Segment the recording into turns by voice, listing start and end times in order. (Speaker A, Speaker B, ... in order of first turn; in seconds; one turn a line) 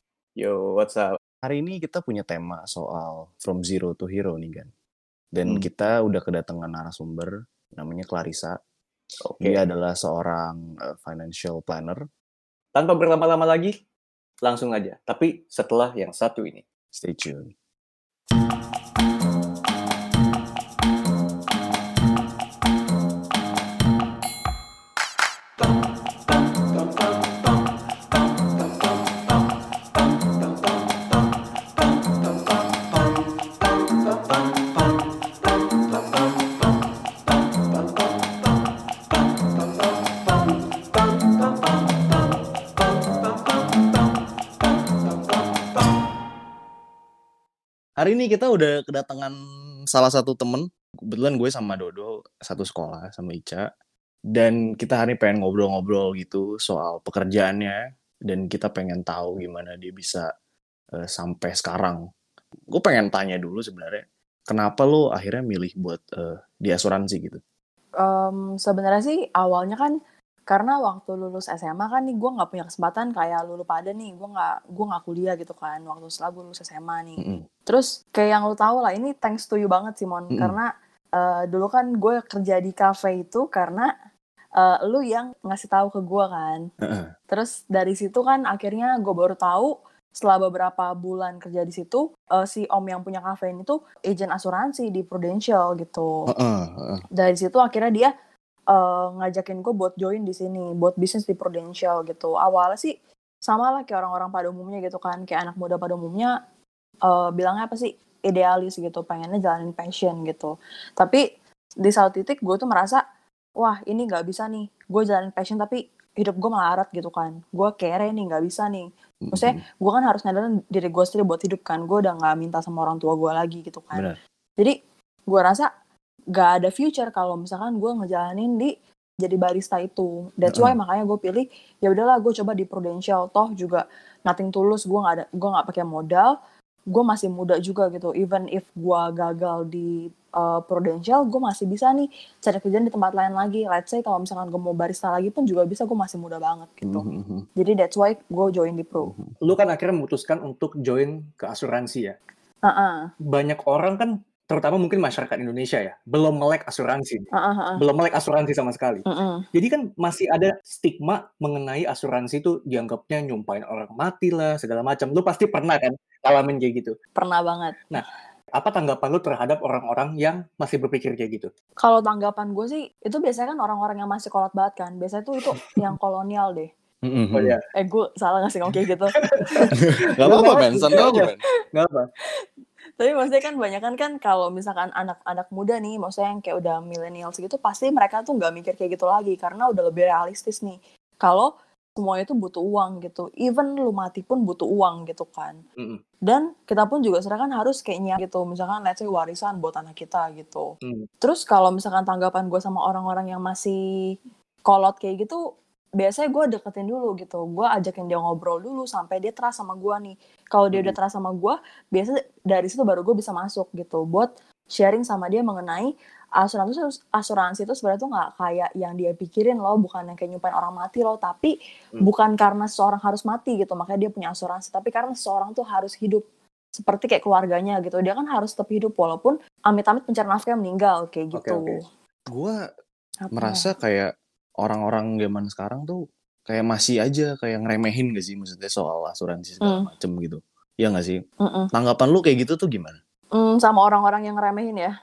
Speaker A: 0.4-1.2
Speaker B: 1.4-4.7
Speaker B: 5.3-8.6
Speaker B: 9.4-12.0
Speaker A: 12.8-13.7
Speaker A: 14.4-16.6
Speaker B: 16.9-17.5
Speaker B: 48.0-49.4
Speaker B: 49.9-53.7
Speaker B: 54.3-60.3
Speaker B: 61.0-62.0
Speaker B: 62.7-67.4
Speaker C: 68.0-69.9
Speaker C: 70.5-83.9
Speaker B: 77.2-77.5
Speaker C: 84.6-86.6
Speaker B: 86.8-87.1
Speaker C: 87.3-96.1
Speaker B: 96.3-97.0
Speaker C: 97.2-98.1
Speaker C: 98.7-102.9
Speaker C: 103.5-106.3
Speaker C: 107.1-111.2
Speaker C: 111.8-113.0
Speaker C: 113.6-124.7
Speaker B: 119.2-119.6
Speaker C: 125.3-125.7
Speaker C: 126.3-128.7
Speaker C: 129.2-136.3
Speaker B: 130.5-130.8
Speaker C: 136.9-147.0
Speaker B: 146.8-147.5
Speaker C: 147.6-149.1
Speaker B: 149.0-149.4
Speaker A: 149.4-152.2
Speaker C: 152.6-153.1
Speaker A: 153.3-166.9
Speaker C: 157.3-157.8
Speaker C: 159.1-159.4
Speaker C: 167.2-168.0
Speaker A: 168.6-171.5
Speaker C: 171.8-176.7
Speaker B: 177.1-177.6
Speaker A: 177.3-177.6
Speaker C: 177.8-179.7
Speaker A: 179.2-179.6
Speaker B: 179.8-181.4
Speaker A: 180.2-182.1
Speaker C: 180.3-180.9
Speaker C: 183.0-195.6
Speaker C: 196.3-200.7
Speaker C: 201.2-203.8
Speaker C: 204.7-205.4
Speaker C: 206.0-226.2
Speaker C: 226.8-231.8
Speaker A: 231.3-231.8
Speaker B: 232.3-232.6
Speaker C: 233.2-233.7
Speaker B: 233.3-241.2
Speaker C: 239.6-239.9
Speaker C: 241.4-241.7
Speaker B: 241.7-243.0
Speaker C: 243.3-244.9